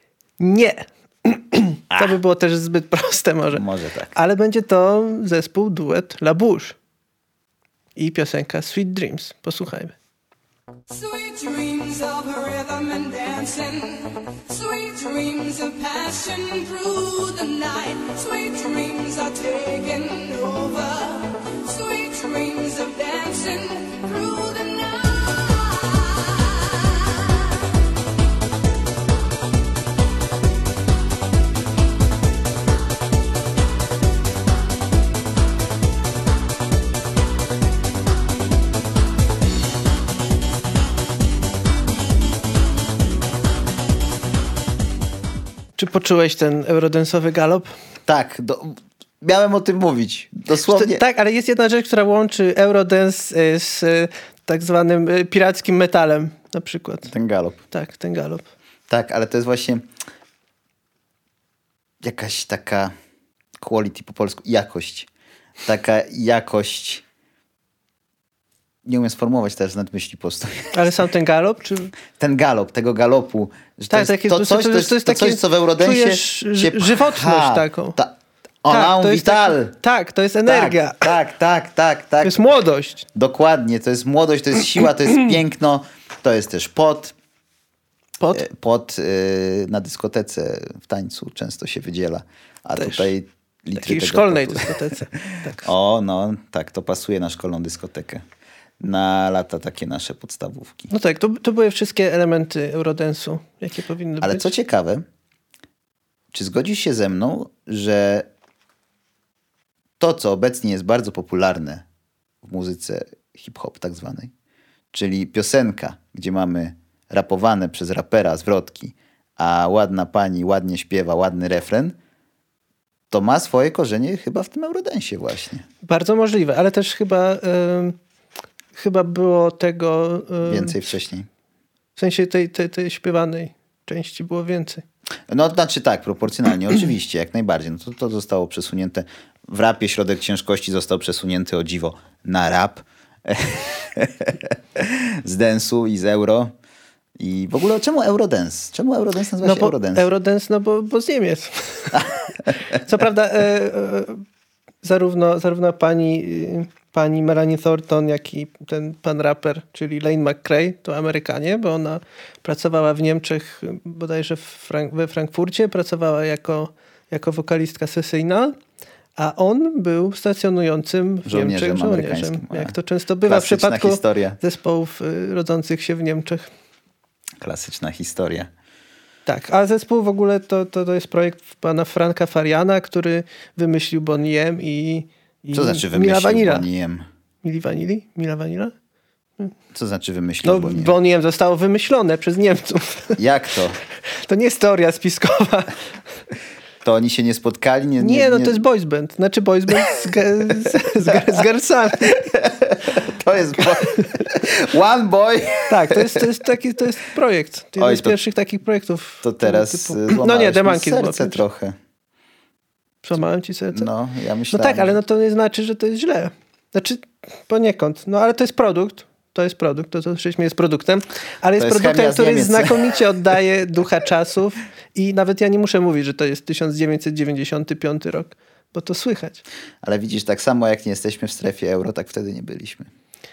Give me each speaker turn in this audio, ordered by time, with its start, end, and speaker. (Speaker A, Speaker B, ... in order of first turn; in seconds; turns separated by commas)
Speaker A: 0.4-3.6, Speaker B: 1.9-2.2, Speaker B: 3.5-4.1, Speaker A: 4.2-6.8, Speaker A: 8.0-9.9, Speaker C: 10.9-27.3, Speaker A: 45.8-47.7, Speaker B: 48.1-51.0, Speaker A: 50.6-57.1, Speaker B: 57.1-57.6, Speaker A: 57.7-58.5, Speaker B: 58.9-59.9, Speaker B: 62.0-62.9, Speaker B: 63.6-65.1, Speaker B: 65.6-67.0, Speaker B: 68.8-70.9, Speaker A: 70.7-71.9, Speaker B: 72.2-79.8, Speaker A: 73.9-78.0, Speaker A: 78.7-81.1, Speaker B: 80.5-82.4, Speaker A: 82.2-83.0, Speaker B: 83.2-87.1, Speaker A: 88.2-88.5, Speaker B: 88.3-94.8, Speaker A: 92.8-93.1, Speaker A: 93.8-95.7, Speaker B: 95.6-98.2, Speaker B: 98.8-100.9, Speaker A: 100.9-104.5, Speaker B: 104.2-105.0, Speaker B: 106.3-108.3, Speaker B: 110.0-111.8, Speaker B: 112.4-114.3, Speaker B: 114.9-122.0, Speaker B: 123.1-125.7, Speaker A: 125.8-128.0, Speaker A: 128.8-130.8, Speaker B: 130.4-131.3, Speaker A: 132.0-134.8, Speaker B: 135.3-146.5, Speaker B: 147.2-150.1, Speaker A: 149.4-152.0, Speaker A: 152.8-154.2, Speaker A: 154.8-168.6, Speaker A: 169.2-176.5, Speaker B: 171.3-174.4, Speaker B: 177.4-178.5, Speaker A: 179.3-186.7, Speaker B: 185.5-187.1, Speaker A: 187.4-188.7, Speaker B: 189.7-190.9, Speaker A: 190.4-193.2, Speaker B: 193.2-193.8, Speaker A: 194.2-195.7, Speaker B: 196.8-198.6, Speaker A: 198.0-202.2, Speaker B: 202.1-206.2, Speaker A: 205.7-211.4, Speaker B: 207.8-208.2, Speaker B: 209.2-211.8, Speaker A: 213.0-213.9, Speaker B: 213.7-214.9, Speaker A: 214.5-229.4, Speaker B: 221.6-222.9, Speaker B: 229.8-232.9